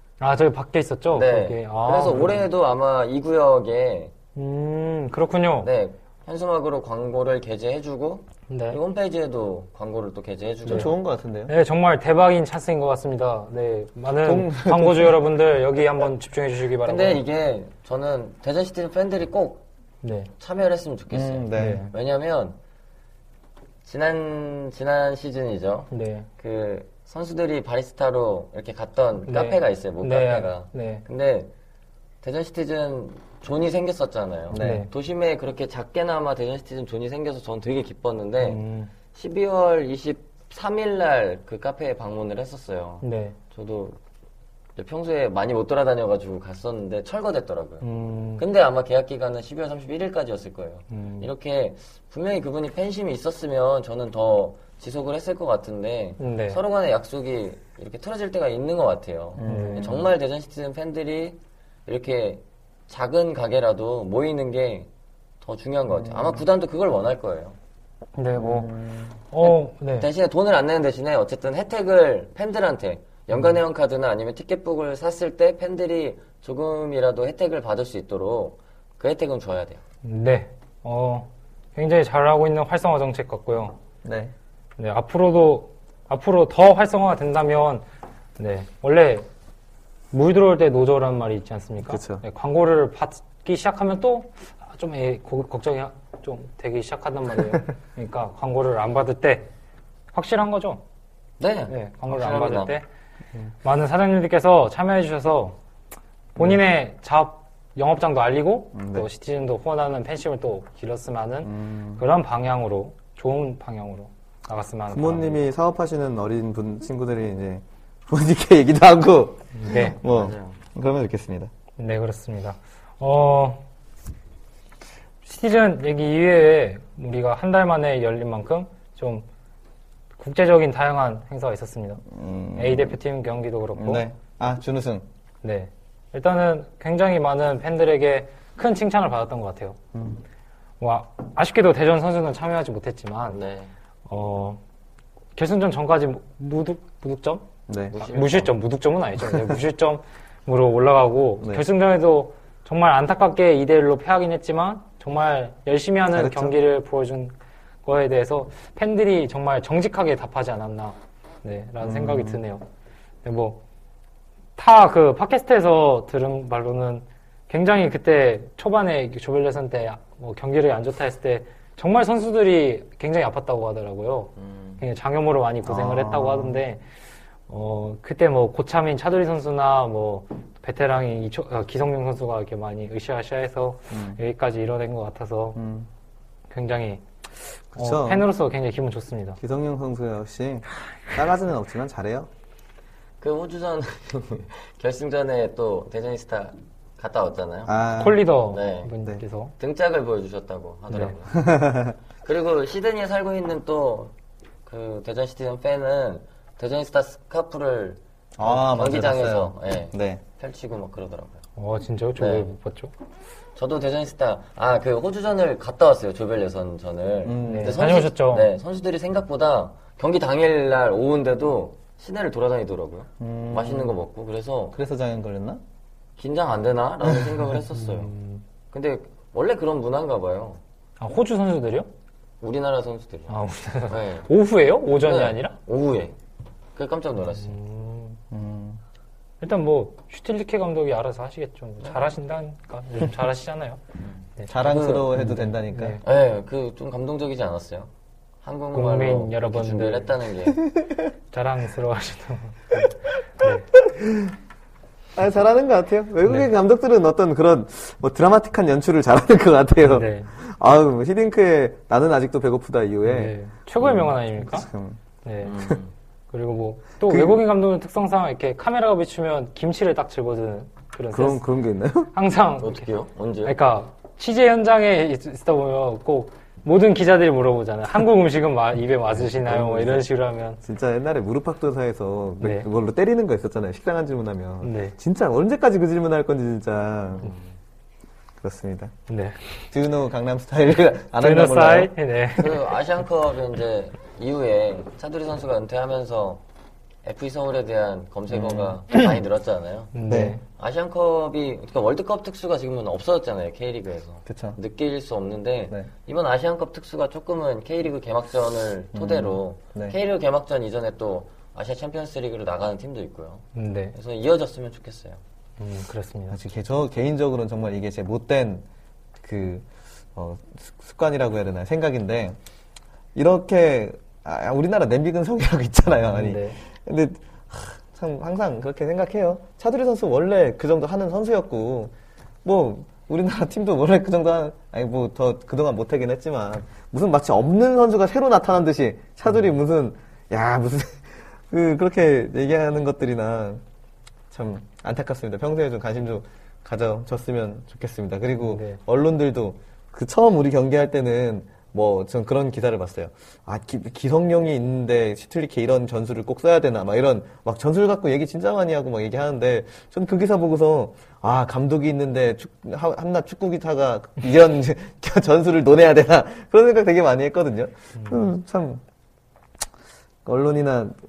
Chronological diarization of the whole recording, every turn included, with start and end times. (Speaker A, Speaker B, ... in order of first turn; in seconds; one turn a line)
Speaker A: 0.2-2.5
Speaker B: 1.1-4.1
Speaker A: 4.4-5.7
Speaker B: 5.6-10.9
Speaker A: 8.5-8.8
Speaker A: 10.7-10.9
Speaker C: 10.7-11.5
Speaker A: 11.5-17.2
Speaker C: 14.2-15.2
Speaker B: 16.8-19.6
Speaker A: 20.0-20.3
Speaker B: 20.4-22.6
Speaker C: 21.1-21.8
Speaker A: 21.5-21.9
Speaker B: 23.8-31.5
Speaker A: 25.9-26.3
Speaker A: 29.3-31.0
Speaker B: 32.2-38.6
Speaker C: 34.5-34.9
Speaker A: 34.5-34.9
Speaker A: 38.4-38.9
Speaker B: 39.1-44.0
Speaker A: 43.0-43.4
Speaker B: 44.8-47.8
Speaker A: 47.8-48.4
Speaker B: 48.4-64.9
Speaker A: 50.9-51.3
Speaker A: 56.2-56.6
Speaker C: 59.4-60.1
Speaker A: 59.4-60.0
Speaker B: 65.4-67.6
Speaker C: 65.9-66.4
Speaker A: 68.2-68.7
Speaker C: 68.4-69.2
Speaker A: 69.3-70.1
Speaker B: 69.4-79.8
Speaker A: 80.0-83.8
Speaker C: 84.0-84.3
Speaker A: 84.8-87.8
Speaker A: 88.4-89.3
Speaker A: 90.1-99.5
Speaker C: 91.8-92.2
Speaker A: 100.1-100.8
Speaker B: 101.4-102.7
Speaker A: 101.7-102.9
Speaker A: 103.6-105.6
Speaker A: 106.3-115.4
Speaker C: 108.7-109.1
Speaker C: 111.4-112.0
Speaker C: 114.9-121.5
Speaker A: 119.5-120.0
Speaker B: 120.0-120.6
Speaker A: 121.8-123.6
Speaker A: 125.2-129.2
Speaker A: 130.2-132.0
Speaker C: 132.1-133.0
Speaker A: 132.6-134.0
Speaker C: 133.8-135.1
Speaker A: 135.4-139.8
Speaker C: 139.9-140.2
Speaker A: 140.8-143.4
Speaker B: 143.3-143.7
Speaker A: 144.1-144.6
Speaker A: 145.4-157.3
Speaker C: 147.7-148.0
Speaker B: 147.9-148.5
Speaker C: 156.1-156.6
Speaker A: 157.8-162.6
Speaker C: 161.8-162.4
Speaker A: 163.2-163.6
Speaker A: 164.6-176.8
Speaker B: 174.4-174.8
Speaker C: 175.6-176.6
Speaker A: 177.5-185.6
Speaker C: 183.9-184.2
Speaker C: 185.6-185.9
Speaker A: 186.5-187.0
Speaker A: 187.7-189.4
Speaker C: 187.7-188.3
Speaker C: 189.4-192.3
Speaker B: 193.2-197.7
Speaker C: 197.7-198.3
Speaker A: 198.0-199.5
Speaker B: 198.5-198.9
Speaker B: 199.6-201.5
Speaker C: 201.3-201.9
Speaker B: 202.2-204.1
Speaker B: 204.7-211.4
Speaker C: 208.4-210.2
Speaker A: 211.6-212.9
Speaker B: 212.2-212.5
Speaker B: 213.6-224.8
Speaker C: 217.2-217.9
Speaker A: 217.4-218.5
Speaker C: 223.2-224.0
Speaker C: 224.7-225.6
Speaker B: 226.2-228.1
Speaker A: 227.7-228.4
Speaker B: 228.7-230.6
Speaker A: 231.0-231.9
Speaker B: 232.4-233.4
Speaker A: 233.3-235.6
Speaker B: 233.9-234.3
Speaker B: 235.0-236.1
Speaker B: 236.8-237.6
Speaker A: 237.4-238.2
Speaker C: 238.3-238.8
Speaker A: 239.4-243.8
Speaker B: 244.0-245.1
Speaker C: 244.5-246.0
Speaker A: 245.1-246.0
Speaker B: 246.0-247.9
Speaker B: 248.4-250.6
Speaker A: 248.7-250.1
Speaker C: 250.7-251.1
Speaker A: 251.3-253.7
Speaker C: 253.8-254.3
Speaker C: 255.2-265.0
Speaker A: 259.8-260.3
Speaker A: 263.0-264.7
Speaker A: 265.2-265.6
Speaker B: 265.4-265.9
Speaker A: 266.3-271.4
Speaker C: 267.0-267.4
Speaker C: 271.1-272.1
Speaker A: 272.1-272.9
Speaker B: 272.6-273.6
Speaker A: 273.4-280.6
Speaker C: 279.1-280.1
Speaker C: 280.6-287.3
Speaker A: 282.4-282.7
Speaker A: 284.6-284.9
Speaker B: 287.2-287.5
Speaker C: 288.4-288.9
Speaker A: 289.1-289.6
Speaker C: 289.7-291.9
Speaker A: 291.2-292.7
Speaker B: 292.4-296.4
Speaker B: 297.0-299.9
Speaker C: 298.3-299.1
Speaker A: 299.9-300.4
Speaker C: 300.1-300.4
Speaker B: 300.5-315.2
Speaker C: 304.2-304.6
Speaker C: 308.9-310.0
Speaker A: 313.5-313.9
Speaker A: 315.6-316.4
Speaker C: 316.3-318.6
Speaker C: 319.2-322.4
Speaker C: 323.1-331.9
Speaker A: 326.0-326.6
Speaker C: 332.4-343.6
Speaker C: 344.3-368.8
Speaker A: 348.4-348.8
Speaker A: 367.9-368.3
Speaker C: 370.2-370.9